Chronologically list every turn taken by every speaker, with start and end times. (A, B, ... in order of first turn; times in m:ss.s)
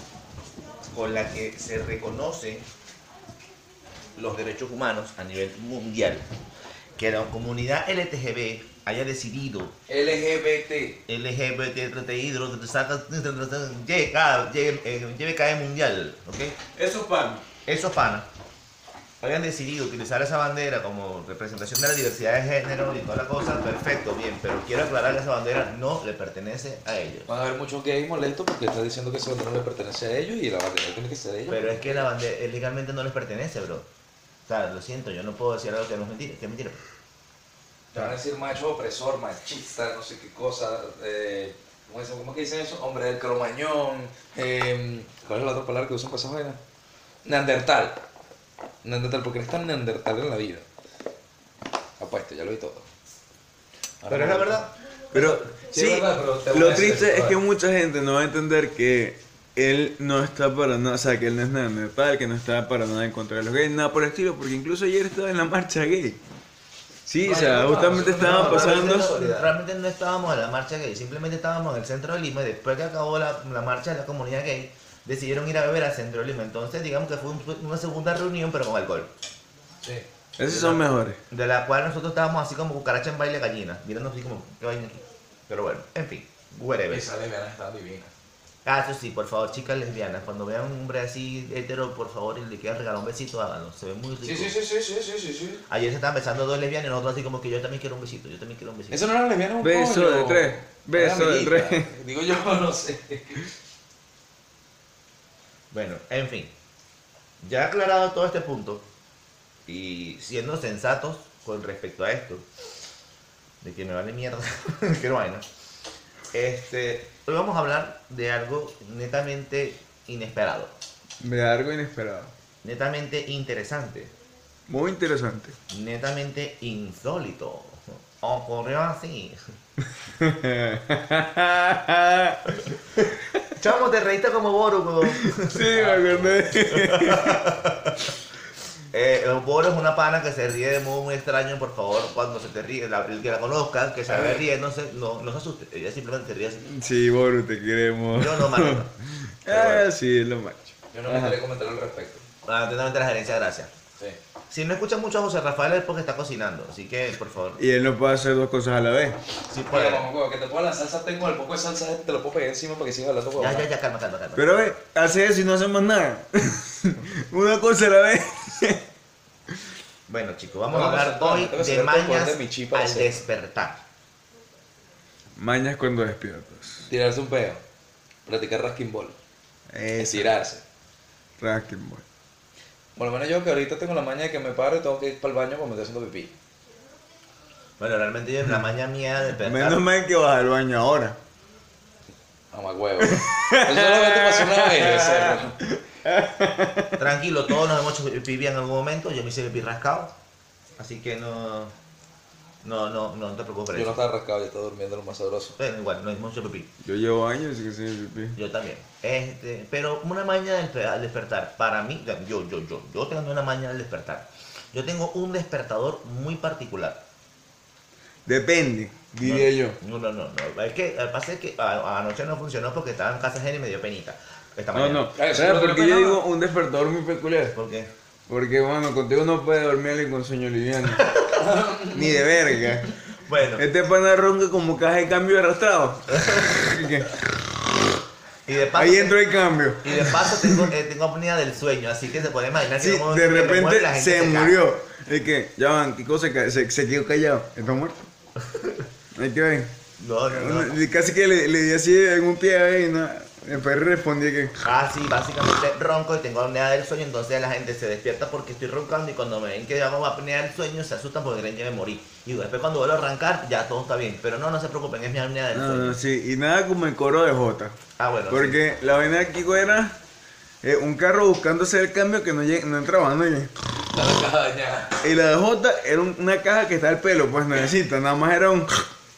0:00.9-0:02.6 A
0:04.2-0:06.2 A
0:07.0-0:09.7 A
0:09.9-0:11.0 B
0:11.1-0:16.6 A
0:16.8-0:17.4 C
0:17.6-0:18.2 A
0:19.2-0:27.3 A
0:27.3-0:32.1 B
0:31.5-0:33.8 A
0:34.5-0:36.8 A
0:37.9-0:46.6 B
0:37.9-0:38.2 A
0:47.2-0:48.0 B
0:48.8-0:50.6 B
0:52.0-0:52.9 B
0:54.0-0:54.6 B
0:54.1-0:54.7 A
0:55.1-0:57.4 B
0:55.1-1:06.2 C
1:07.0-1:09.1 C
1:07.2-1:09.5 B
1:08.0-1:19.1 A
1:19.8-1:20.1 B
1:20.4-1:21.2 C
1:20.5-1:27.1 A
1:26.9-1:28.1 B
1:28.6-1:34.6 A
1:34.2-1:35.6 B
1:35.7-1:39.0 A
1:38.9-1:43.5 B
1:39.6-1:41.9 C
1:45.7-1:46.5 A
1:47.4-1:48.8 A
1:49.7-1:52.4 A
1:53.6-1:55.4 A
1:56.3-2:00.7 A
2:01.2-2:02.3 C
2:02.6-2:04.1 A
2:04.7-2:05.6 C
2:05.7-2:09.4 A
2:10.2-2:13.4 C
2:13.6-2:15.8 A
2:15.2-2:17.4 C
2:15.7-2:16.4 B
2:16.6-2:18.0 A
2:18.9-2:26.6 A
2:24.1-2:24.4 B
2:26.6-2:31.4 C
2:28.1-2:28.9 A
2:29.5-2:29.8 A
2:30.9-2:32.2 B
2:32.4-2:33.7 A
2:34.5-2:37.6 A
2:37.6-2:39.2 C
2:39.5-2:40.0 A
2:39.7-2:43.7 B
2:43.4-2:44.7 A
2:44.4-2:48.8 C
2:50.1-2:53.8 A
2:50.7-2:53.2 B
2:55.4-2:56.9 C
2:56.9-2:57.6 B
2:58.2-2:59.2 B
2:59.7-3:00.3 C
3:00.0-3:00.6 B
3:01.4-3:02.0 C
3:03.0-3:06.3 B
3:07.8-3:09.8 A
3:09.4-3:11.2 C
3:12.5-3:15.6 B
3:13.0-3:17.0 C
3:17.0-3:20.1 A
3:20.8-3:21.7 A
3:22.6-3:24.0 A
3:23.7-3:25.6 B
3:25.6-3:26.7 A
3:26.8-3:28.4 C
3:28.4-3:37.0 A
3:38.2-3:39.8 C
3:39.2-3:45.1 A
3:44.7-3:47.6 C
3:45.1-3:46.2 B
3:47.5-3:47.9 A
3:48.3-3:51.1 C
3:51.0-3:51.4 A
3:51.3-3:52.6 B
3:51.9-3:52.9 C
3:53.2-3:53.6 A
3:53.6-3:57.2 C
3:56.1-3:56.8 A
3:58.4-3:59.2 A
3:58.7-4:00.7 C
3:59.8-4:04.6 A
4:02.8-4:08.1 C
4:08.4-4:08.8 A
4:09.1-4:09.8 C
4:10.0-4:10.8 A
4:10.3-4:14.6 C
4:14.6-4:26.0 A
4:25.5-4:27.8 C
4:28.0-4:28.6 A
4:28.3-4:30.0 C
4:30.6-4:33.5 C
4:33.9-4:35.0 B
4:35.0-4:38.8 C